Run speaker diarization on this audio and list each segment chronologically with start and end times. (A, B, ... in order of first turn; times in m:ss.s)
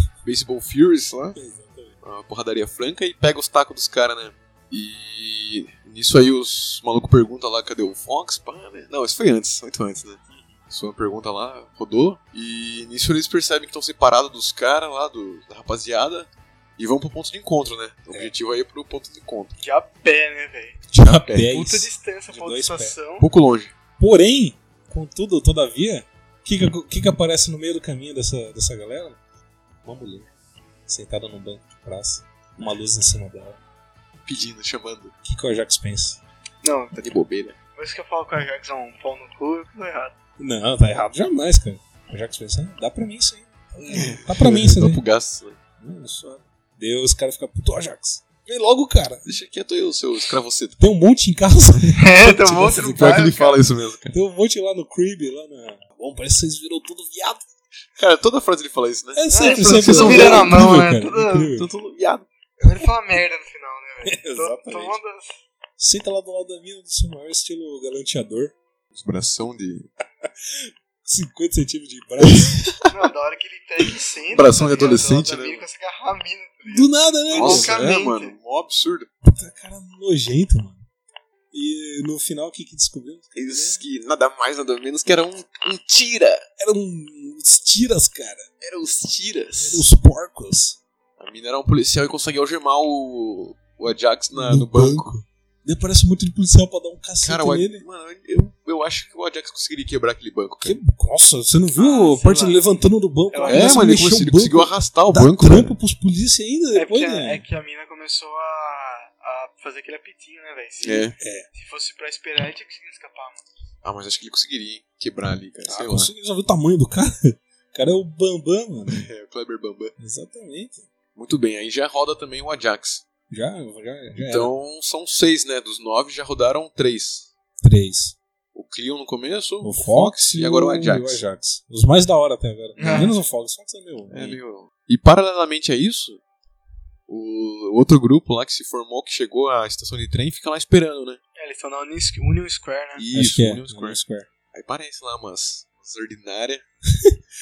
0:00.2-0:01.4 A
0:01.4-0:02.0 B
0:02.0-0:10.2 A
0:10.3-0:10.6 B
0:10.7-0:19.5 A
0:19.6-0:20.8 C
0:20.9-0:23.0 B
0:21.0-0:21.5 A
0:21.5-0:23.2 C
0:23.2-0:23.7 A
0:24.0-0:29.2 B
0:29.8-0:30.3 B
0:30.9-0:33.6 B
0:34.3-0:35.1 A
0:35.2-0:36.2 B
0:36.6-0:37.1 C
0:37.0-0:37.6 A
0:37.8-0:40.1 C
0:40.4-0:45.0 B
0:43.9-0:45.6 A
0:45.8-0:49.2 B
0:49.3-0:50.8 A
0:50.8-0:53.2 B
0:52.0-0:53.6 C
0:52.7-0:54.2 A
0:54.1-0:57.4 B
0:58.0-1:00.7 A
0:59.2-1:01.7 B
0:59.3-1:01.5 C
1:01.6-1:02.2 A
1:02.6-1:05.4 C
1:04.0-1:05.0 B
1:05.8-1:08.6 B
1:09.0-1:09.9 A
1:10.2-1:12.7 B
1:12.2-1:12.9 A
1:12.9-1:18.3 C
1:14.3-1:15.6 A
1:16.7-1:18.0 B
1:17.3-1:19.1 A
1:19.2-1:20.8 B
1:21.5-1:23.8 B
1:23.4-1:26.4 A
1:26.6-1:28.5 B
1:28.6-1:29.9 A
1:29.6-1:30.8 B
1:31.2-1:35.1 A
1:34.3-1:37.8 B
1:37.2-1:40.8 A
1:40.6-1:47.4 B
1:41.8-1:42.6 C
1:43.3-1:43.8 C
1:43.5-1:45.7 A
1:46.8-1:53.4 C
1:50.8-1:51.2 A
1:51.2-1:51.5 B
1:53.8-1:56.1 A
1:55.7-1:59.1 B
1:58.9-1:59.9 A
2:00.0-2:00.9 B
2:01.2-2:03.0 A
2:03.3-2:04.5 B
2:04.2-2:07.3 A
2:07.6-2:08.2 B
2:08.5-2:11.2 A
2:09.6-2:14.4 B
2:12.8-2:13.1 C
2:14.1-2:16.2 A
2:17.1-2:21.2 A
2:21.4-2:23.0 C
2:23.0-2:24.0 A
2:23.1-2:24.3 B
2:24.5-2:26.6 A